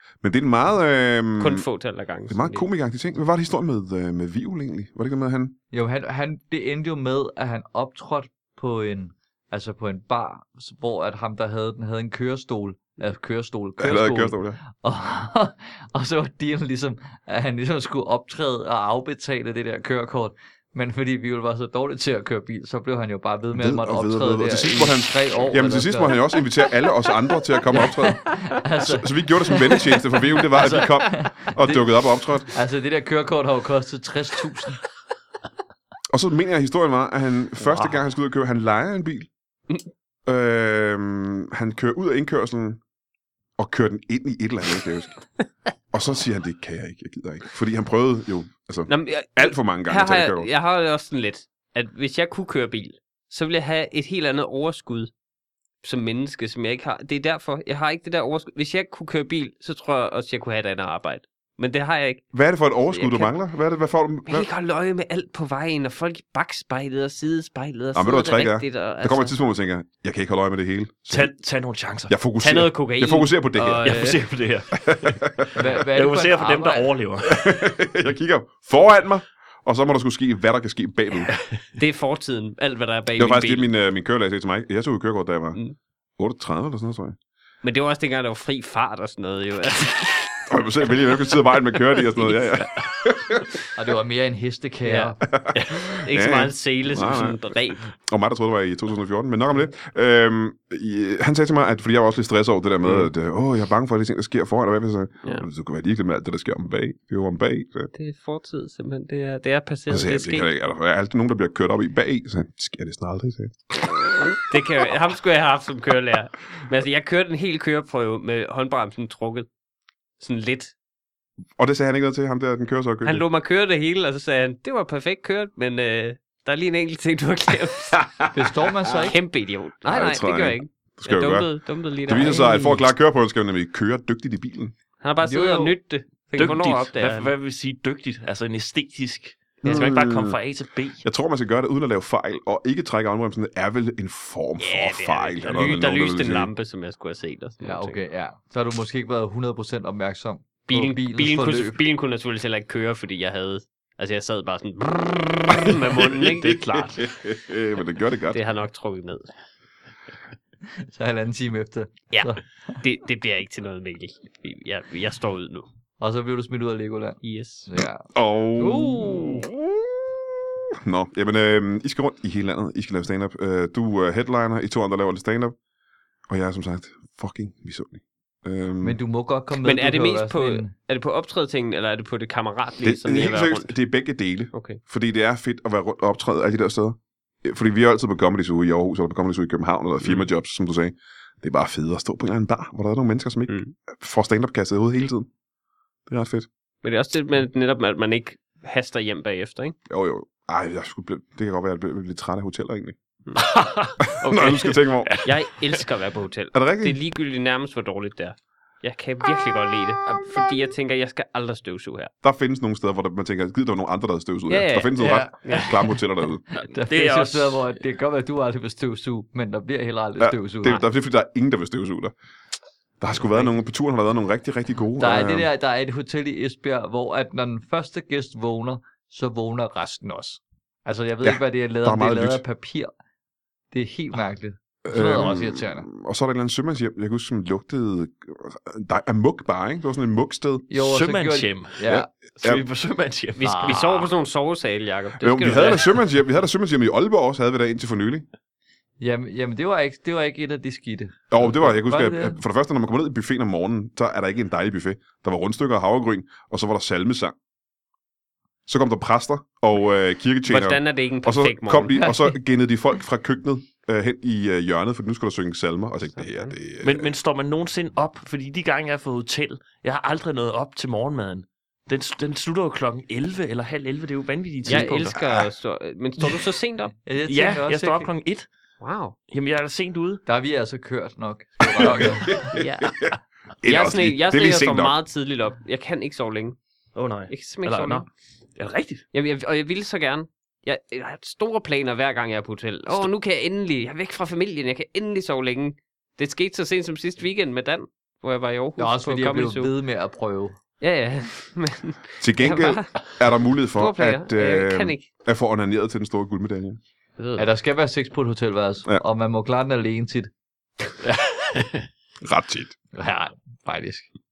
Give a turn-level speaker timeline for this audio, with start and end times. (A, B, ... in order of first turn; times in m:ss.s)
0:00.2-0:01.6 A
0:01.4-0:02.6 B
0:02.3-0:05.6 A
0:05.7-0:26.4 C
0:13.8-0:14.6 A
0:23.5-0:28.2 A
0:27.7-0:31.9 C
0:28.8-0:32.5 A
0:32.5-0:34.8 C
0:36.1-0:39.3 A
0:37.7-0:37.9 D
0:40.2-0:42.8 A
0:43.6-0:45.1 A
0:45.9-0:50.5 A
0:48.9-0:55.1 B
0:55.8-1:02.3 B
1:02.3-1:04.5 A
1:02.9-1:03.3 B
1:04.3-1:09.3 B
1:07.9-1:11.3 A
1:11.1-1:12.2 D
1:12.1-1:14.0 A
1:12.4-1:14.2 B
1:13.8-1:17.5 D
1:14.8-1:15.5 A
1:15.5-1:16.9 C
1:17.2-1:21.3 A
1:21.8-1:23.7 B
1:23.2-1:25.6 A
1:26.2-1:27.2 A
1:27.6-1:30.4 B
1:30.5-1:33.4 A
1:33.7-1:35.2 C
1:34.8-1:35.1 B
1:35.2-1:37.4 A
1:35.5-1:35.8 D
1:35.9-1:37.9 B
1:38.0-1:47.9 A
1:47.9-1:50.5 B
1:49.9-1:54.4 A
1:54.5-1:59.5 B
2:00.2-2:00.7 B
2:01.6-2:03.2 A
2:03.0-2:08.1 B
2:08.3-2:09.2 C
2:08.9-2:12.7 B
2:09.8-2:11.5 A
2:12.0-2:14.7 A
2:15.0-2:17.3 B
2:15.2-2:15.7 D
2:16.3-2:21.0 D
2:19.6-2:20.4 A
2:19.6-2:19.9 B
2:21.0-2:26.5 A
2:24.6-2:28.0 B
2:27.6-2:31.8 C
2:30.7-2:37.0 B
2:35.5-2:38.4 A
2:38.3-2:39.3 B
2:40.9-2:42.7 C
2:42.1-2:45.7 B
2:46.0-2:48.1 C
2:47.2-2:47.7 B
2:48.1-2:50.2 A
2:48.6-2:49.5 C
2:50.8-2:55.6 A
2:56.3-2:59.0 A
2:58.8-3:00.7 C
2:59.6-3:03.8 B
3:02.8-3:15.3 A
3:04.5-3:04.8 B
3:13.5-3:13.7 B
3:16.1-3:16.5 A
3:16.8-3:19.8 B
3:19.9-3:23.0 A
3:23.4-3:25.8 D
3:24.0-3:25.2 A
3:25.2-3:32.1 B
3:26.5-3:27.0 A
3:30.1-3:30.5 A
3:32.2-3:36.4 A
3:34.5-3:35.8 B
3:35.0-3:35.9 C
3:36.5-3:37.7 D
3:36.5-3:40.8 C
3:40.2-3:42.1 A
3:43.0-3:45.5 A
3:45.0-3:52.9 C
3:51.2-3:52.4 A
3:53.7-3:55.9 C
3:54.8-4:00.7 A
4:00.7-4:02.1 C
4:00.7-4:03.9 D
4:01.8-4:02.6 A
4:03.4-4:06.0 B
4:03.4-4:04.1 C
4:05.2-4:08.2 A
4:09.0-4:12.4 C
4:11.3-4:17.3 A
4:18.7-4:27.1 A
4:20.5-4:22.3 B
4:26.2-4:26.5 B
4:26.8-4:35.2 D
4:34.6-4:36.9 B
4:35.1-4:35.4 A
4:37.0-4:38.1 C
4:37.2-4:38.5 D
4:38.8-4:39.2 B
4:39.3-4:40.2 D
4:40.2-4:42.5 C
4:41.7-4:45.0 A
4:42.5-4:43.0 B
4:43.6-4:46.6 B
4:46.9-4:49.0 D
4:47.3-4:48.0 B
4:49.1-4:59.7 B
4:58.8-5:00.6 C
5:00.8-5:03.1 B
5:02.2-5:06.8 A
5:03.8-5:05.1 B
5:07.2-5:07.5 B
5:07.4-5:10.3 C
5:11.1-5:11.7 D
5:12.2-5:12.7 A
5:12.9-5:14.1 C